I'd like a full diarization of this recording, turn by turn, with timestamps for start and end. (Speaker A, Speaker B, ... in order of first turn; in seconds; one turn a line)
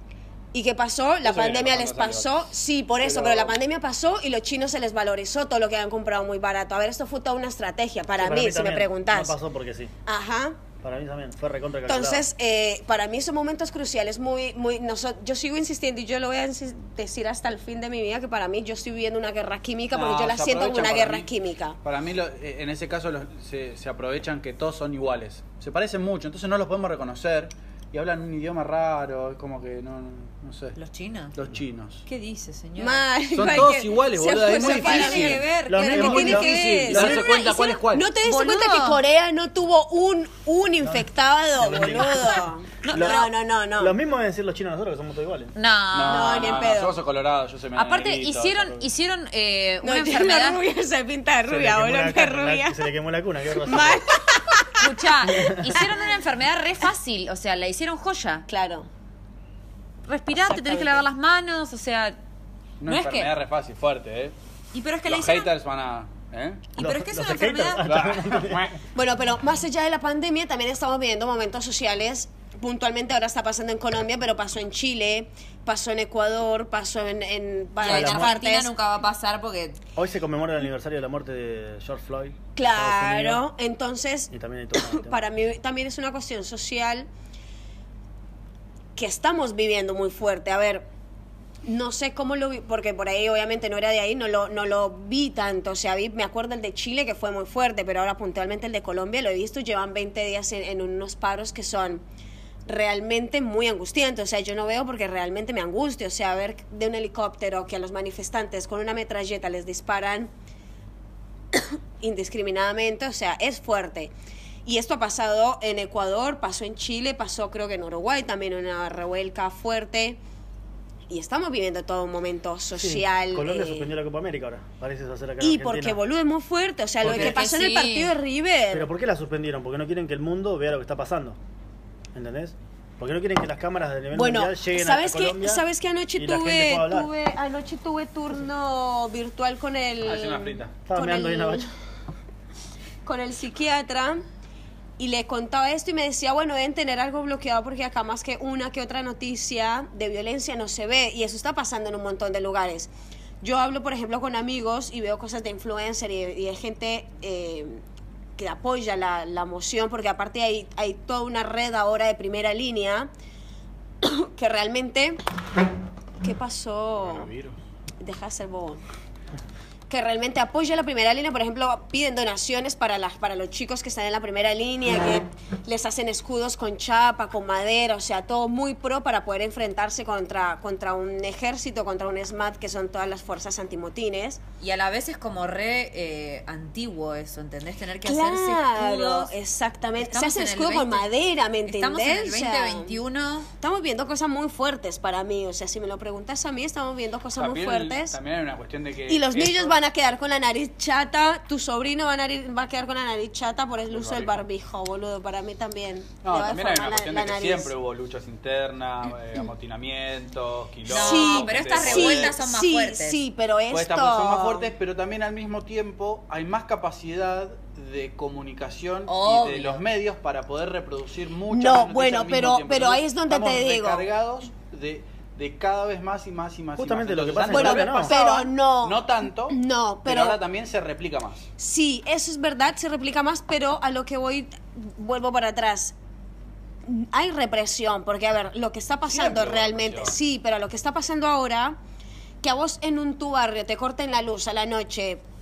Speaker A: 0.5-9.3
Speaker B: 1.2-2.5
Speaker B: 3.0-3.6
Speaker C: 8.2-9.9
Speaker A: 10.1-10.6
Speaker C: 10.8-12.2
Speaker A: 11.9-21.8
Speaker B: 19.9-21.3
Speaker B: 21.8-30.8
Speaker D: 30.8-31.3
Speaker B: 31.3-32.0
Speaker D: 32.0-33.0
Speaker A: 32.8-43.9
Speaker B: 33.3-38.1
Speaker D: 34.2-36.5
Speaker C: 35.6-37.3
Speaker D: 37.1-37.6
Speaker D: 38.2-39.0
Speaker C: 40.8-41.1
Speaker C: 41.6-43.3
Speaker D: 42.8-43.3
Speaker C: 43.8-45.5
Speaker D: 45.5-46.7
Speaker B: 45.9-48.8
Speaker A: 46.1-47.0
Speaker D: 47.8-50.6
Speaker A: 49.8-52.8
Speaker C: 51.5-54.0
Speaker A: 53.6-54.9
Speaker D: 54.8-58.5
Speaker C: 55.3-55.7
Speaker A: 58.5-58.9
Speaker D: 60.1-62.1
Speaker A: 60.4-61.0
Speaker B: 62.8-64.3
Speaker D: 62.9-63.3
Speaker D: 64.7-65.5
Speaker B: 65.0-66.6
Speaker D: 66.7-67.9
Speaker C: 66.8-68.7
Speaker B: 67.8-68.8
Speaker A: 68.9-78.7
Speaker D: 77.8-79.8
Speaker C: 77.8-78.3
Speaker C: 80.0-83.4
Speaker A: 82.5-87.1
Speaker C: 84.3-85.2
Speaker A: 89.0-90.9
Speaker A: 91.6-102.0
Speaker A: 102.7-110.3
Speaker A: 111.5-114.1
Speaker A: 114.7-120.2
Speaker A: 121.1-123.9
Speaker C: 122.8-126.0
Speaker A: 125.4-128.9
Speaker C: 127.0-127.3
Speaker D: 127.0-128.1
Speaker C: 128.7-131.4
Speaker C: 132.1-135.6
Speaker A: 134.1-141.7
Speaker C: 136.2-137.1
Speaker B: 140.0-140.7
Speaker C: 140.8-141.7
Speaker A: 143.0-144.2
Speaker A: 145.0-152.9
Speaker A: 153.4-157.8
Speaker A: 158.4-163.1
Speaker A: 164.0-165.2
Speaker A: 166.2-167.3
Speaker B: 167.0-167.6
Speaker A: 168.0-168.8
Speaker A: 169.9-184.4
Speaker D: 184.6-189.3
Speaker A: 188.0-193.0
Speaker D: 190.0-191.1
Speaker D: 191.7-193.5
Speaker A: 193.6-198.2
Speaker B: 197.4-199.8
Speaker A: 199.1-207.7
Speaker B: 203.9-204.4
Speaker B: 206.2-212.3
Speaker D: 210.9-213.2
Speaker A: 210.9-214.7
Speaker B: 213.7-231.5
Speaker D: 219.1-219.8
Speaker A: 221.5-224.0
Speaker C: 226.8-228.2
Speaker A: 227.5-230.4
Speaker A: 231.6-235.9
Speaker A: 236.8-241.8
Speaker B: 239.1-240.2
Speaker A: 242.4-245.2